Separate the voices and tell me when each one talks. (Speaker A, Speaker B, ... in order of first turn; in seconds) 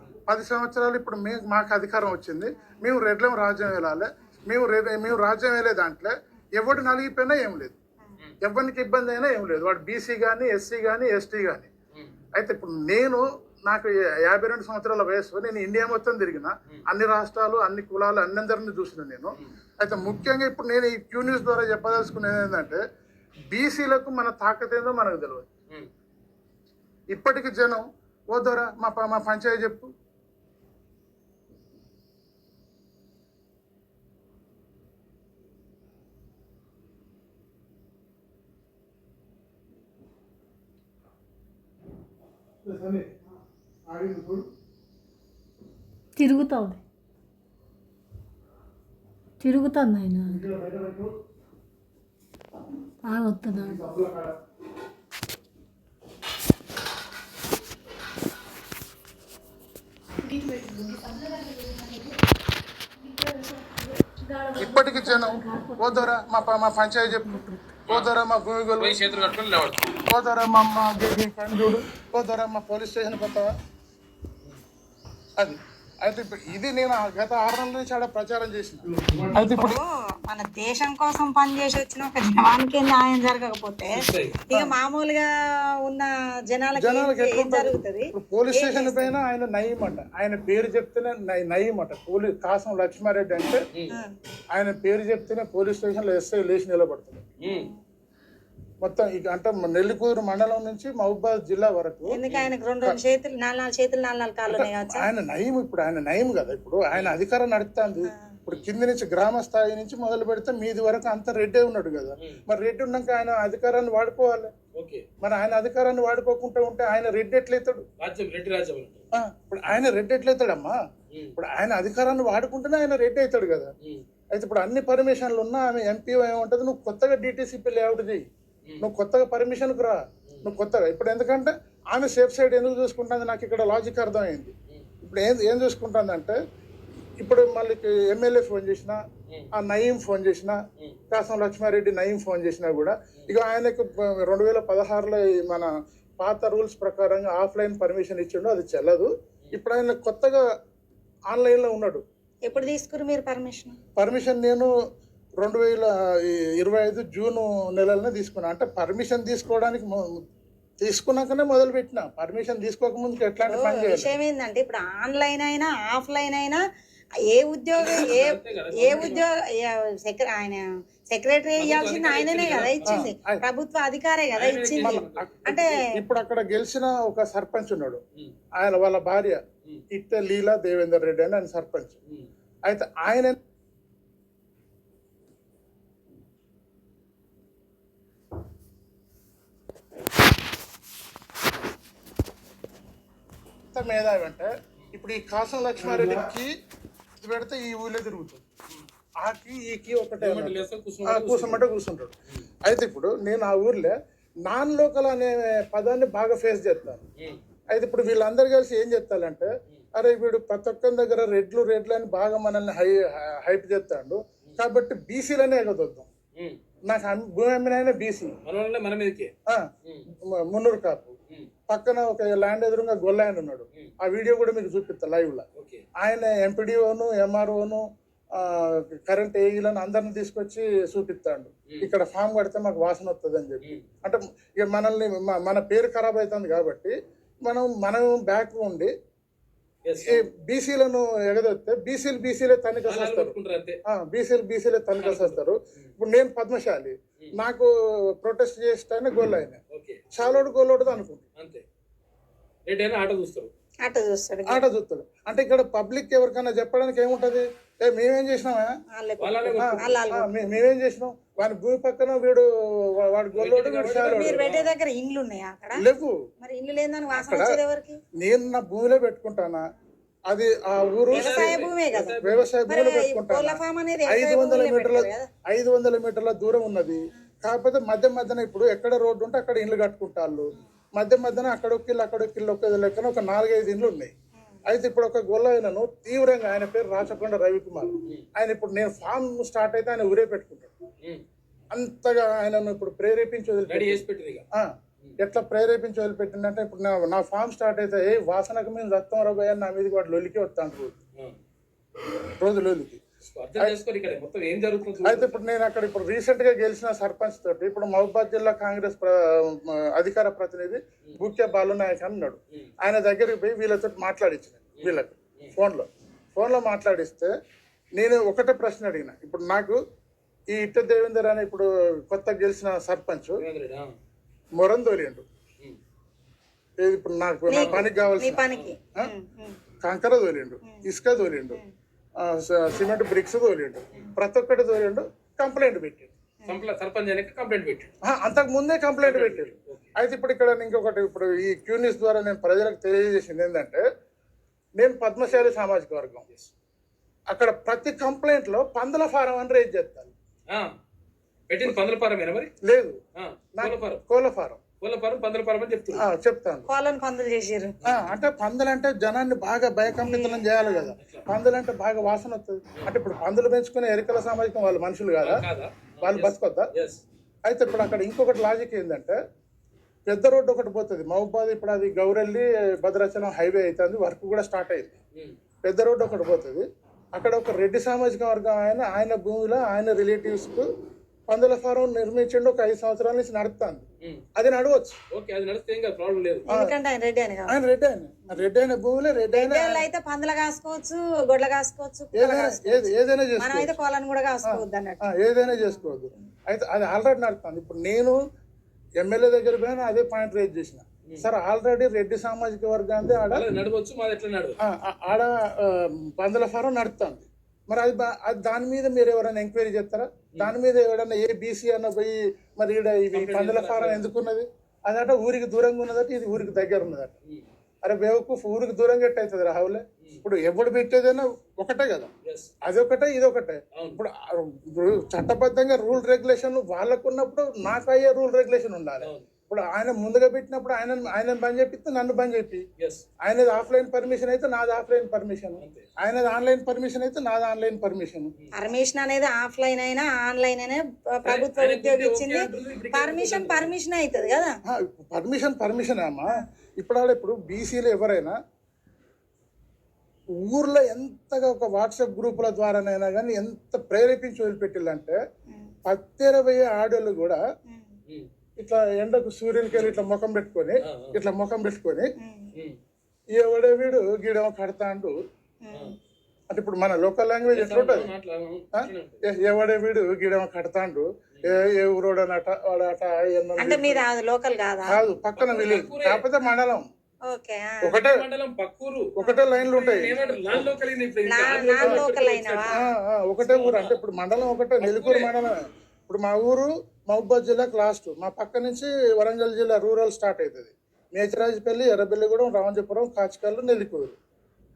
Speaker A: 0.3-7.8, 8.4-11.7, 12.3-22.8, 23.5-25.4, 27.1-29.9, 42.6-43.1, 43.9-44.5, 50.3-51.1, 53.5-54.3, 64.6-69.1, 70.0-73.5, 75.4-79.8, 86.8-93.6, 94.5-97.2, 98.8-102.2, 104.5-114.5, 115.2-117.8, 119.1-120.8, 121.3-123.7, 124.3-128.2, 128.8-136.4, 137.2-139.0, 139.5-150.4, 151.3-152.0, 153.9-154.7, 155.4-160.1, 160.8-164.1, 172.8-173.4, 174.8-178.0, 178.6-181.9, 182.7-183.4, 193.7-196.5, 197.2-198.4, 199.2-202.1, 202.6-203.9, 204.5-207.0, 207.7-216.1, 216.9-218.3, 220.2-221.1, 221.7-225.4, 226.0-227.8, 228.3-238.9, 240.1-243.3, 243.9-249.6, 250.1-251.2, 254.5-258.7, 259.6-264.4, 265.8-266.2, 267.1-267.5, 268.2-269.6, 270.3-271.6, 272.2-284.1, 284.6-290.7, 291.7-294.0, 294.5-300.9, 302.4-303.0, 305.0-317.3, 318.0-319.8, 320.5-323.4, 324.6-325.2, 326.8-328.4, 329.8-331.6, 332.2-336.1, 338.0-343.8, 344.8-346.2, 347.3-350.1, 352.6-353.0, 353.6-354.6, 355.9-356.7, 357.8-365.4, 366.0-366.7, 367.4-369.2, 370.1-374.9, 375.6-380.6, 381.3-383.8, 384.4-385.0, 387.5-389.9, 392.1-393.7, 394.5-398.2, 399.0-403.4, 404.6-417.1, 417.8-422.1, 422.6-432.6, 433.2-438.3, 444.7-448.4, 450.4-455.2, 455.9-457.4, 458.6-462.1, 463.4-465.1, 466.5-468.1, 468.8-474.0, 474.9-476.9, 477.8-478.2, 479.2-480.6, 482.7-485.6, 486.1-494.1
Speaker B: 46.1-46.8, 49.4-50.4, 53.0-53.8, 60.2-62.1, 63.0-66.1, 67.1-67.7
Speaker C: 68.8-70.0, 78.9-79.4, 83.9-84.4, 97.4-97.7, 114.8-115.0, 118.0-119.0, 167.7-169.2, 171.6-173.1, 174.3-175.4, 195.8-196.2, 200.2-201.6, 218.4-219.3, 225.6-225.8, 239.8-240.2, 242.9-243.8, 245.0-245.9, 249.7-250.0, 251.4-251.6, 252.7-253.5, 259.2-260.0, 263.3-264.7, 271.1-272.5, 293.7-294.4, 303.3-305.4, 314.8-315.5, 323.4-323.9, 327.6-327.9, 336.5-337.9, 339.0-339.9, 351.5-352.5, 353.2-354.0, 354.8-356.0, 357.8-358.1, 361.0-361.2, 365.2-367.0, 385.1-386.5, 403.3-404.6, 413.1-414.1, 422.2-422.5, 423.7-424.0, 429.0-429.3, 432.8-433.0, 435.6-435.9, 441.2-443.7, 459.7-460.0, 460.9-461.1, 467.5-469.2, 475.4-476.3, 477.9-479.1, 479.6-482.7, 483.4-484.0, 484.8-485.3
Speaker D: 79.3-85.3, 85.8-89.1, 97.5-97.8, 102.1-105.0, 152.5-153.8, 163.5-166.6, 167.3-175.7, 253.8-254.6, 258.9-260.3, 263.9-265.8, 266.4-268.0, 271.1-272.1, 272.7-275.3, 327.5-329.6, 356.7-357.7, 360.0-360.9, 386.5-387.6, 389.3-396.3, 438.5-444.5, 462.2-462.5, 465.6-465.9, 473.6-475.0, 477.3-477.9, 479.2-480.4, 481.3-482.8